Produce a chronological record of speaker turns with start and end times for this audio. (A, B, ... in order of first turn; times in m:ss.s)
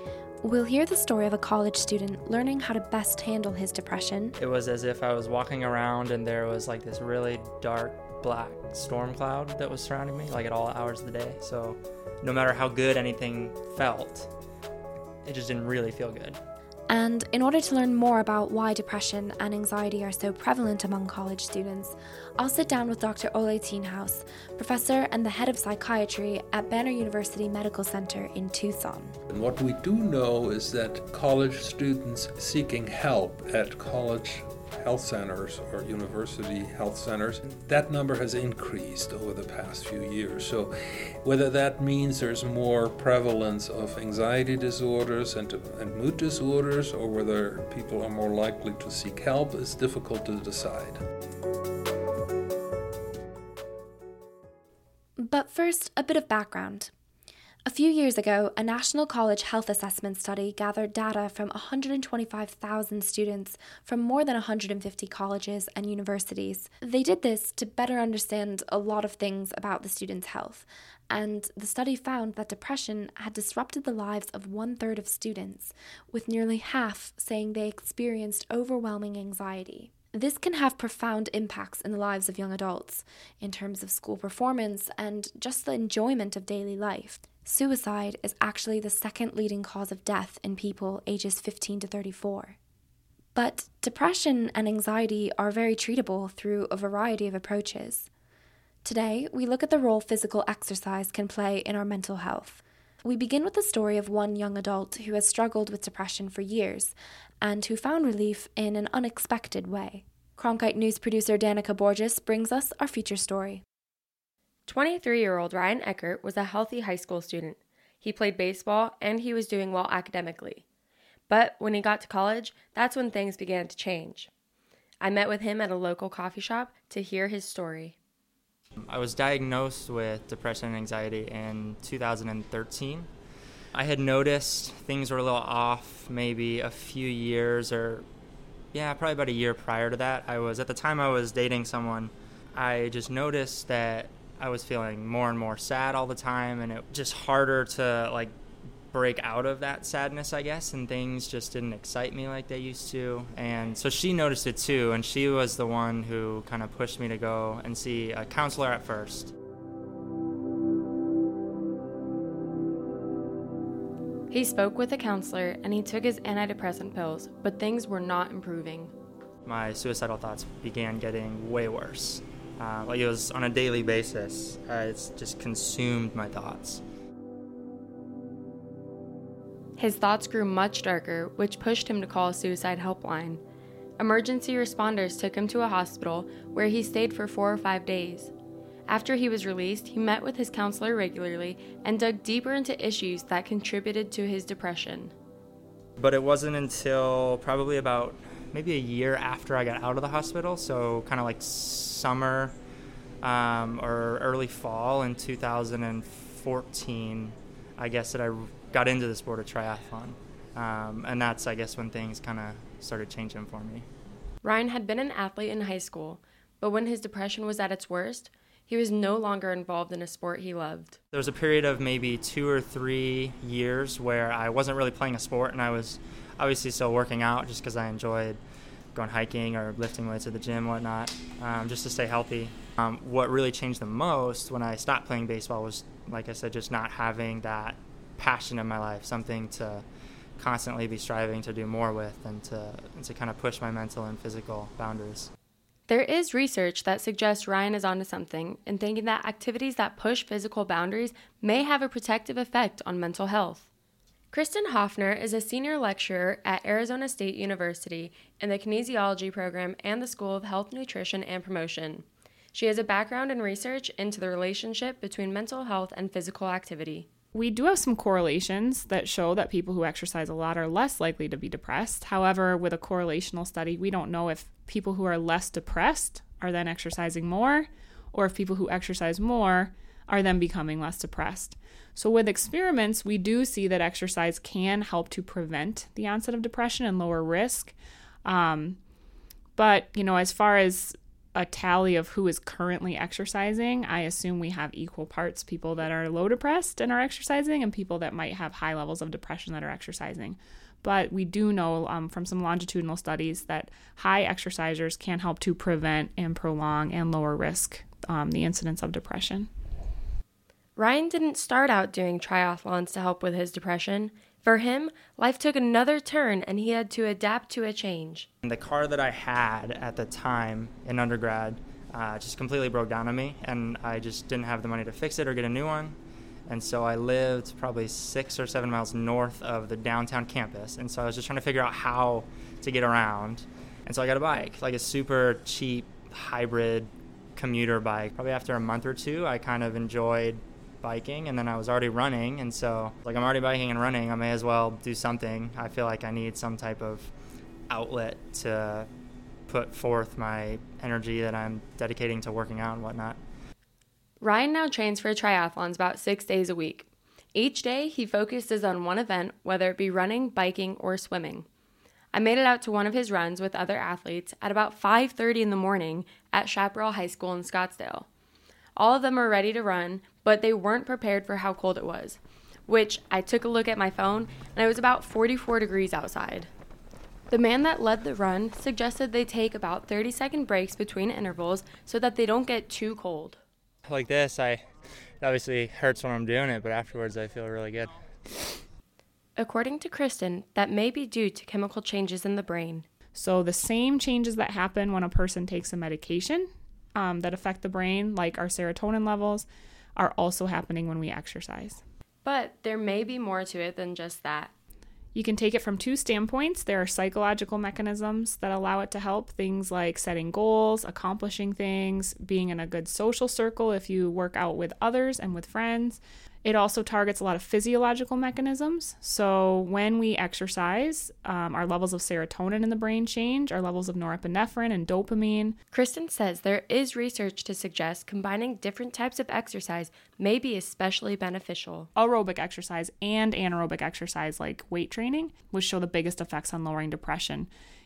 0:00.4-0:04.3 A
0:04.4-0:14.3 B
0:15.2-0:16.4 B
0:16.9-0:29.1 A
0:29.3-0:40.7 C
0:41.2-0:51.0 C
0:55.2-0:56.9 A
0:57.6-1:32.6 A
1:33.4-1:38.1 A
1:38.8-1:53.6 A
1:54.6-2:00.6 D
2:01.3-2:04.3 D
2:05.0-2:07.9 D
2:08.8-2:13.1 B
2:13.7-2:18.0 B
2:18.7-2:28.3 B
2:28.9-2:39.3 B
2:44.3-2:48.9 D
2:49.4-2:56.8 B
2:59.8-3:03.4 D
3:04.0-3:08.3 D
3:08.9-3:15.1 D
3:16.0-3:22.5 B
3:23.2-3:33.8 B
3:34.4-3:41.0 D
3:41.1-3:48.4 B
3:48.9-3:59.8 B
4:00.4-4:05.3 B
4:05.9-4:13.7 D
4:14.3-4:27.1 D
4:27.3-4:48.8 E
4:49.6-5:09.5 E
5:10.8-5:18.3 D
5:18.4-5:26.0 B
5:26.5-5:47.1 B
5:47.7-5:48.9 B
5:49.5-5:53.2 B
5:54.2-6:01.4 D
6:02.1-6:08.1 D
6:08.8-6:16.5 D
6:17.3-6:23.4 D
6:23.8-6:24.6 B
6:25.2-6:28.4 B
6:29.4-6:32.8 D
6:33.1-6:41.8 E
6:42.2-6:44.5 D
6:45.1-7:05.6 E
7:05.7-7:11.9 D
7:12.0-7:17.5 E